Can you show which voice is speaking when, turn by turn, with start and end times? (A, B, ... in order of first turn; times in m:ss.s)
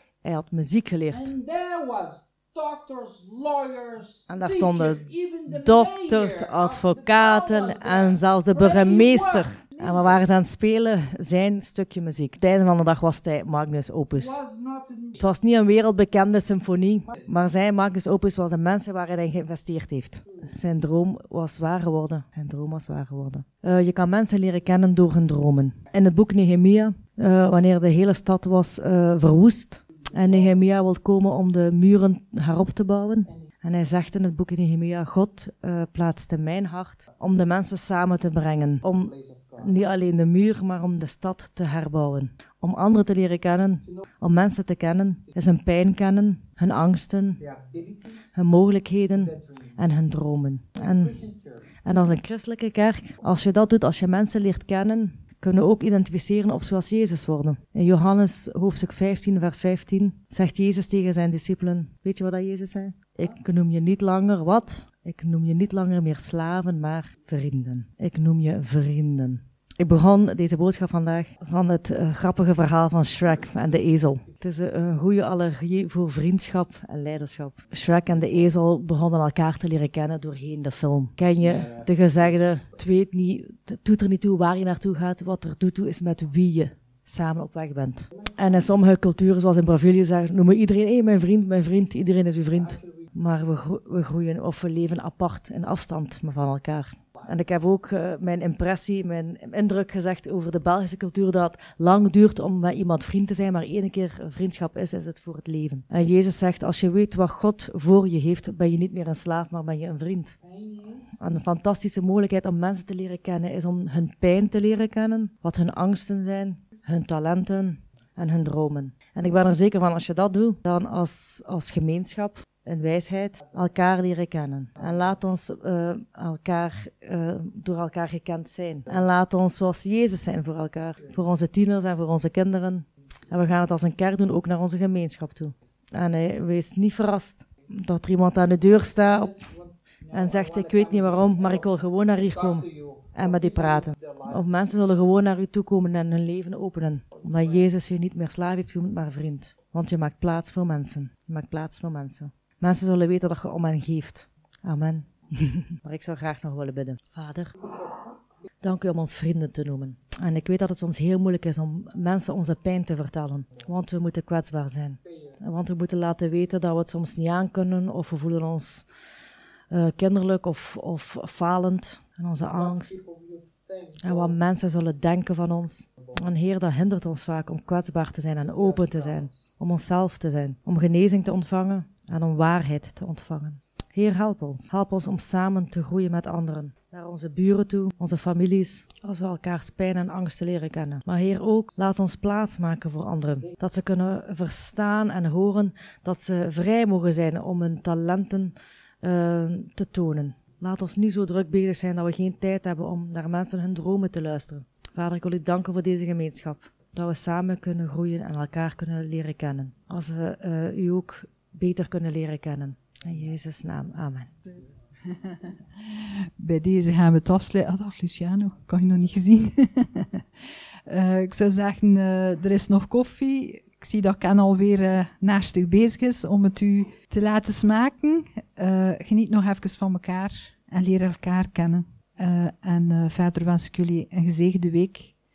0:00.2-0:01.4 A
0:01.1-0:10.3 B
0:04.3-0:14.4 A
0:14.2-0:15.4 B
0:15.2-0:47.4 A
0:30.2-0:30.5 B
0:39.0-0:39.8 B
0:47.4-0:48.3 B
0:48.4-0:51.2 A
0:49.1-0:49.8 B
0:50.8-0:51.7 B
0:51.8-1:50.4 A
1:21.3-1:22.4 B
1:32.5-1:33.1 B
1:50.4-1:51.1 B
1:51.2-2:19.5 A
2:18.7-2:24.4 B
2:20.1-2:37.5 A
2:38.6-2:48.9 A
2:45.1-2:45.4 B
2:49.7-2:53.0 A
2:52.5-2:54.4 B
2:54.0-3:34.3 A
2:58.4-2:59.4 B
3:35.1-3:55.1 C